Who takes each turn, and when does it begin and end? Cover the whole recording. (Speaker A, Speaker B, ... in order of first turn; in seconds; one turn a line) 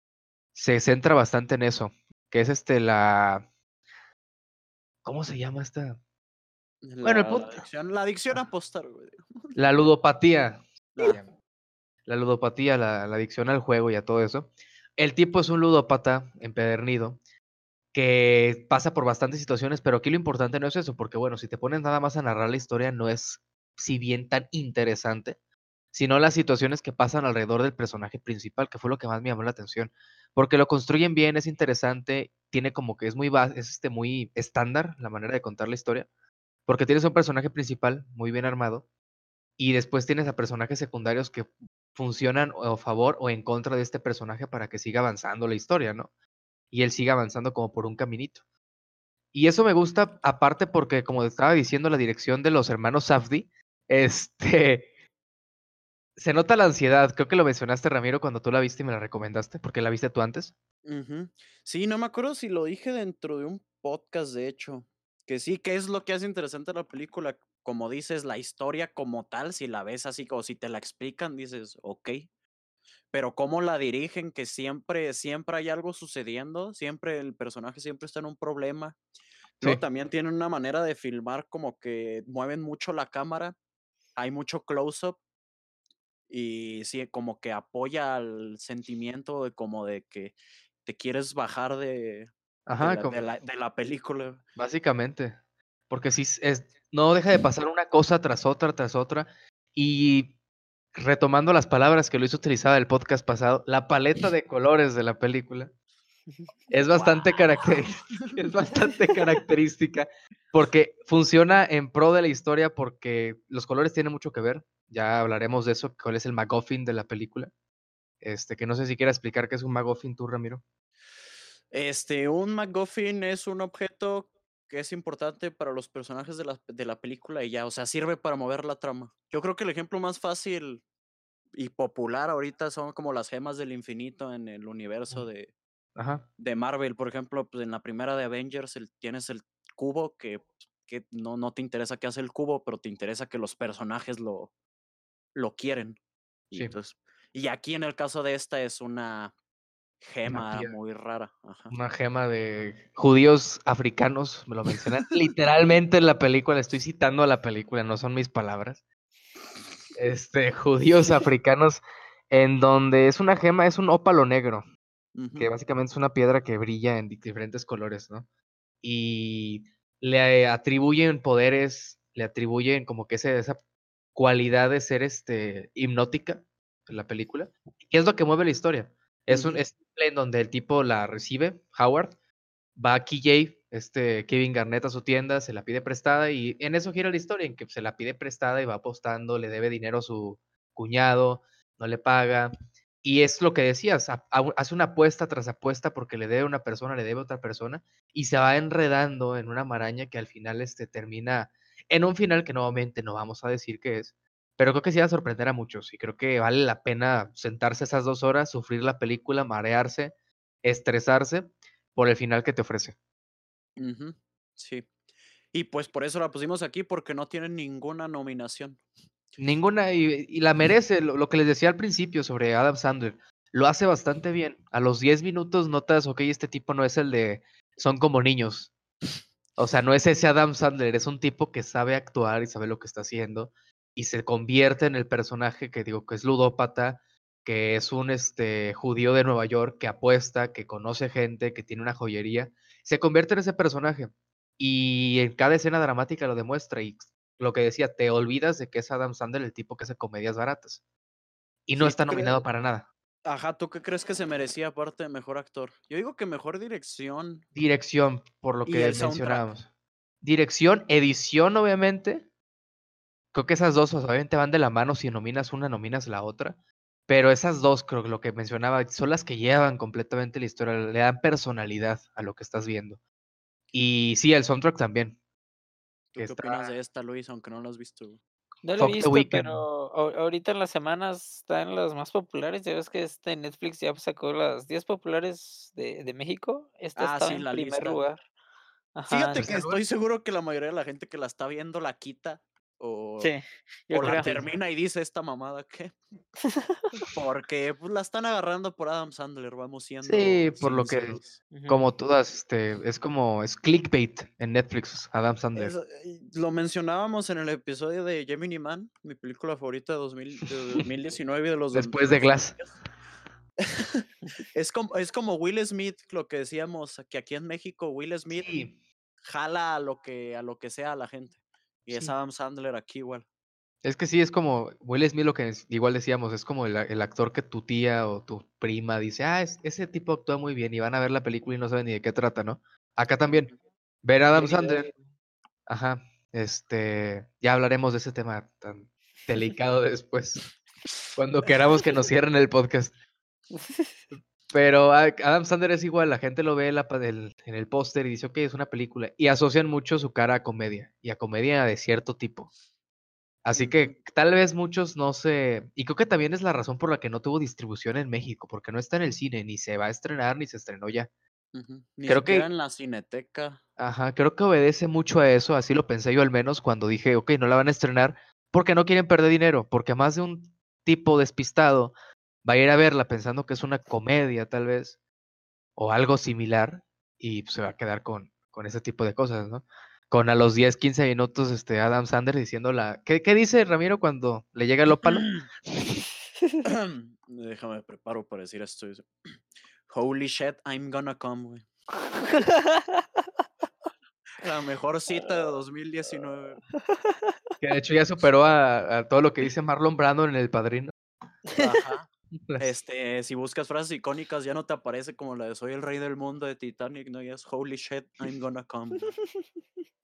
Speaker A: 0.5-3.5
Speaker A: 5.0-6.0
Speaker B: 6.8-9.6
Speaker A: 7.0-7.7
Speaker A: 9.6-11.3
Speaker B: 10.9-11.2
Speaker A: 12.1-17.2
Speaker A: 17.9-25.4
Speaker A: 25.9-36.1
Speaker A: 36.7-38.9
Speaker A: 39.6-46.1
Speaker A: 46.7-48.4
Speaker A: 49.3-54.9
Speaker A: 56.2-60.5
Speaker B: 60.8-72.2
Speaker B: 73.1-79.0
Speaker B: 79.6-83.5
Speaker B: 84.2-85.2
Speaker B: 86.3-90.3
Speaker B: 90.8-94.4
Speaker A: 92.7-93.2
Speaker A: 94.5-95.4
Speaker A: 95.9-100.3
Speaker A: 100.9-105.7
Speaker A: 106.7-117.5
Speaker B: 106.9-108.3
Speaker A: 118.2-120.6
Speaker B: 121.7-130.8
Speaker B: 131.5-135.5
Speaker A: 135.9-136.2
Speaker B: 136.4-144.5
Speaker B: 145.3-146.0
Speaker B: 146.5-149.3
Speaker B: 150.0-151.7
Speaker A: 150.3-150.7
Speaker A: 151.7-158.8
Speaker A: 159.9-164.7
Speaker B: 165.1-165.5
Speaker A: 165.3-168.2
Speaker A: 168.8-173.6
Speaker A: 174.2-182.1
Speaker B: 179.3-179.6
Speaker A: 182.8-192.5
Speaker A: 193.0-212.9
Speaker B: 213.8-214.9
Speaker B: 215.5-218.8
Speaker A: 219.4-228.7
Speaker A: 229.6-250.8
Speaker A: 251.7-252.9
Speaker B: 251.7-252.4
Speaker B: 253.2-257.4
Speaker A: 257.5-259.7
Speaker B: 258.6-259.5
Speaker A: 260.2-262.3
Speaker A: 263.3-266.6
Speaker A: 267.1-273.0
Speaker A: 273.7-275.2
Speaker B: 276.1-278.2
Speaker A: 276.1-276.7
Speaker C: 278.6-288.2
Speaker A: 278.8-279.6
Speaker B: 287.0-288.0
Speaker C: 288.9-289.6
Speaker B: 289.1-293.3
Speaker A: 289.4-289.8
Speaker C: 293.2-294.4
Speaker B: 293.9-296.0
Speaker C: 296.4-296.8
Speaker B: 297.1-301.4
Speaker A: 300.0-305.7
Speaker C: 301.5-301.9
Speaker B: 305.5-312.7
Speaker A: 311.7-312.6
Speaker B: 313.6-318.5
Speaker A: 318.3-318.7
Speaker B: 319.2-323.2
Speaker A: 323.8-333.5
Speaker A: 334.0-334.9
Speaker C: 334.3-335.0
Speaker A: 335.7-340.4
Speaker A: 341.1-342.9
Speaker C: 343.5-344.0
Speaker A: 344.5-352.5
Speaker A: 353.4-361.1
Speaker B: 353.5-353.9
Speaker B: 361.5-363.6
Speaker A: 362.1-362.5
Speaker A: 363.8-375.0
Speaker A: 375.8-385.3
Speaker B: 385.0-385.5
Speaker B: 386.6-389.1
Speaker B: 389.9-391.6
Speaker C: 392.1-393.2
Speaker B: 394.4-396.6
Speaker C: 396.9-397.3
Speaker A: 397.6-400.9
Speaker B: 401.6-402.1
Speaker A: 402.5-402.7
Speaker B: 402.6-409.1
Speaker C: 409.2-409.4